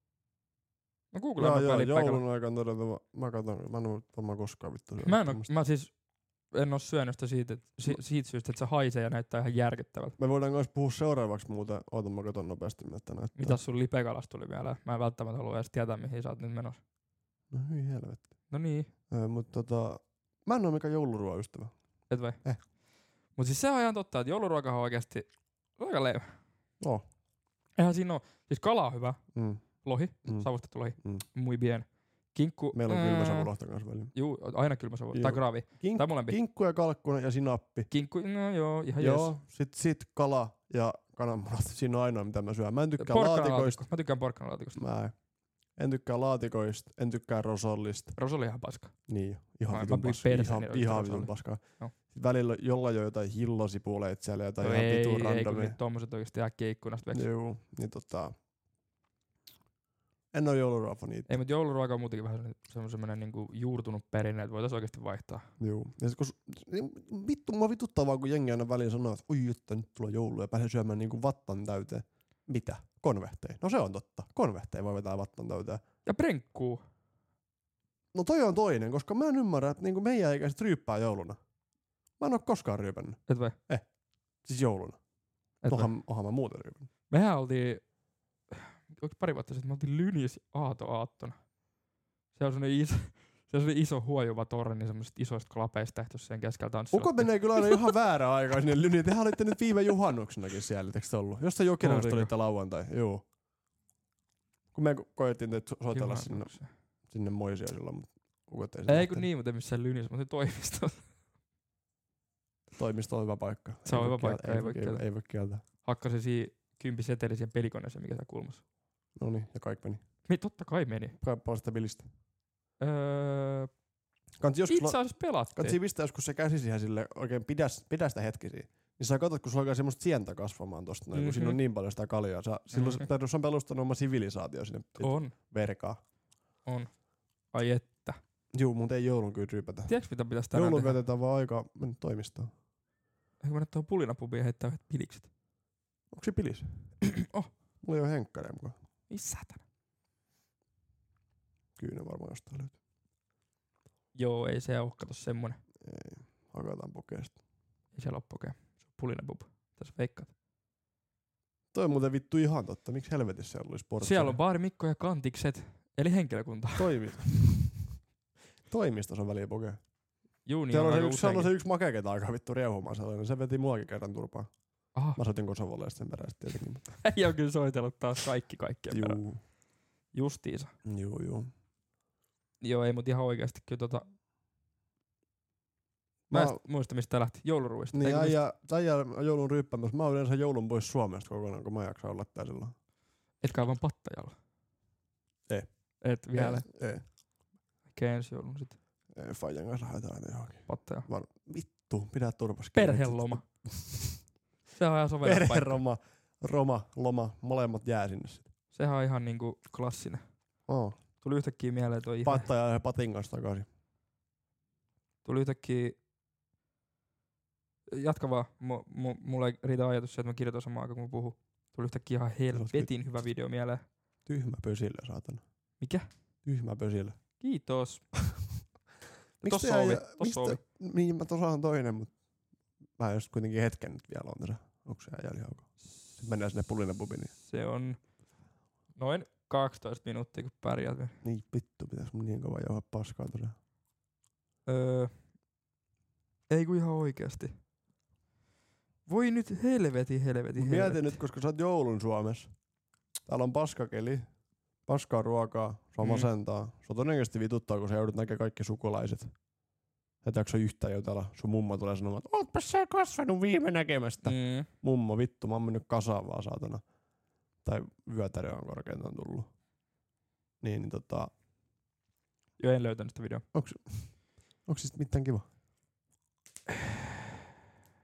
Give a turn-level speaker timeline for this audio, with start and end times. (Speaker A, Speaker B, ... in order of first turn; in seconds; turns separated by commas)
Speaker A: 1.1-2.2, Speaker B: 1.4-5.5, Speaker A: 5.0-5.9, Speaker A: 6.5-10.2, Speaker B: 10.2-13.6, Speaker A: 13.3-16.8, Speaker B: 17.5-18.3, Speaker A: 18.5-18.9, Speaker B: 19.1-21.7, Speaker A: 22.1-22.4, Speaker A: 23.3-26.3, Speaker B: 26.8-27.0, Speaker A: 27.8-29.2, Speaker B: 29.3-29.6, Speaker A: 29.8-33.5, Speaker B: 32.7-34.1, Speaker A: 34.1-36.4, Speaker B: 35.1-37.9, Speaker A: 37.9-39.3, Speaker B: 39.0-43.8, Speaker A: 43.0-44.8, Speaker B: 44.8-45.1, Speaker B: 45.8-48.1, Speaker A: 48.1-48.9, Speaker B: 49.1-55.8, Speaker A: 49.7-51.9, Speaker A: 54.6-57.2, Speaker B: 57.1-58.3, Speaker B: 60.3-61.3, Speaker A: 61.3-65.5, Speaker B: 65.6-75.8, Speaker A: 76.0-76.8, Speaker B: 78.1-81.4, Speaker B: 82.2-83.8, Speaker A: 83.3-83.5, Speaker B: 84.4-85.0, Speaker A: 85.6-85.9, Speaker B: 85.7-86.9, Speaker A: 87.1-87.8, Speaker A: 88.5-91.4, Speaker A: 92.3-97.8, Speaker B: 96.9-103.2, Speaker A: 101.8-102.3, Speaker B: 104.7-106.5, Speaker A: 105.9-106.7, Speaker B: 107.1-109.2, Speaker A: 108.9-111.0, Speaker B: 112.8-115.6, Speaker A: 113.8-115.0, Speaker A: 115.8-118.6, Speaker B: 119.2-120.0, Speaker A: 120.3-121.2, Speaker B: 121.2-122.1, Speaker A: 122.8-123.7, Speaker B: 124.4-125.0, Speaker A: 124.7-125.8, Speaker B: 125.5-136.0, Speaker A: 131.1-131.6, Speaker A: 132.7-133.1, Speaker A: 135.0-135.3, Speaker A: 136.6-136.9, Speaker A: 137.5-138.2, Speaker B: 138.5-139.9, Speaker A: 139.9-141.0, Speaker B: 140.5-142.5, Speaker A: 143.4-145.3, Speaker B: 146.1-146.9, Speaker A: 147.0-147.5, Speaker B: 147.8-148.7, Speaker A: 149.1-149.6, Speaker B: 151.8-152.8, Speaker A: 154.1-155.6, Speaker B: 155.8-157.4, Speaker A: 157.9-160.3, Speaker B: 161.7-164.4, Speaker A: 164.0-166.9, Speaker B: 166.8-167.9, Speaker B: 168.7-169.8, Speaker A: 170.4-171.5, Speaker B: 170.7-174.5, Speaker B: 175.1-177.0, Speaker A: 177.0-179.2, Speaker B: 178.9-179.4, Speaker A: 180.1-180.7, Speaker B: 180.8-181.5, Speaker A: 182.6-184.0, Speaker B: 186.3-186.6, Speaker A: 186.3-188.4, Speaker B: 187.9-192.7, Speaker A: 193.4-194.3, Speaker A: 196.0-196.7, Speaker B: 196.3-197.0, Speaker A: 197.9-198.8, Speaker B: 199.1-204.2, Speaker A: 200.7-201.1, Speaker A: 202.7-203.4, Speaker A: 204.7-205.8, Speaker B: 205.2-208.4, Speaker A: 208.7-210.2, Speaker B: 210.7-211.0, Speaker A: 211.2-212.5, Speaker B: 212.2-213.7, Speaker A: 215.2-216.0, Speaker A: 217.9-223.8, Speaker B: 222.5-222.9, Speaker B: 224.2-225.4, Speaker A: 225.8-226.1, Speaker B: 226.4-227.2, Speaker A: 227.4-228.0, Speaker A: 229.4-230.6, Speaker B: 229.4-232.1, Speaker B: 233.0-237.3, Speaker A: 237.4-238.0, Speaker A: 238.9-241.2, Speaker B: 241.2-243.5, Speaker A: 244.7-245.1, Speaker A: 246.5-247.5, Speaker A: 249.1-251.2, Speaker B: 250.6-252.5, Speaker B: 253.2-254.3, Speaker B: 254.8-259.3, Speaker A: 256.0-256.3, Speaker B: 260.2-266.8, Speaker A: 264.2-264.7, Speaker B: 267.6-269.5, Speaker B: 270.6-271.3, Speaker A: 272.6-273.4, Speaker B: 273.5-275.5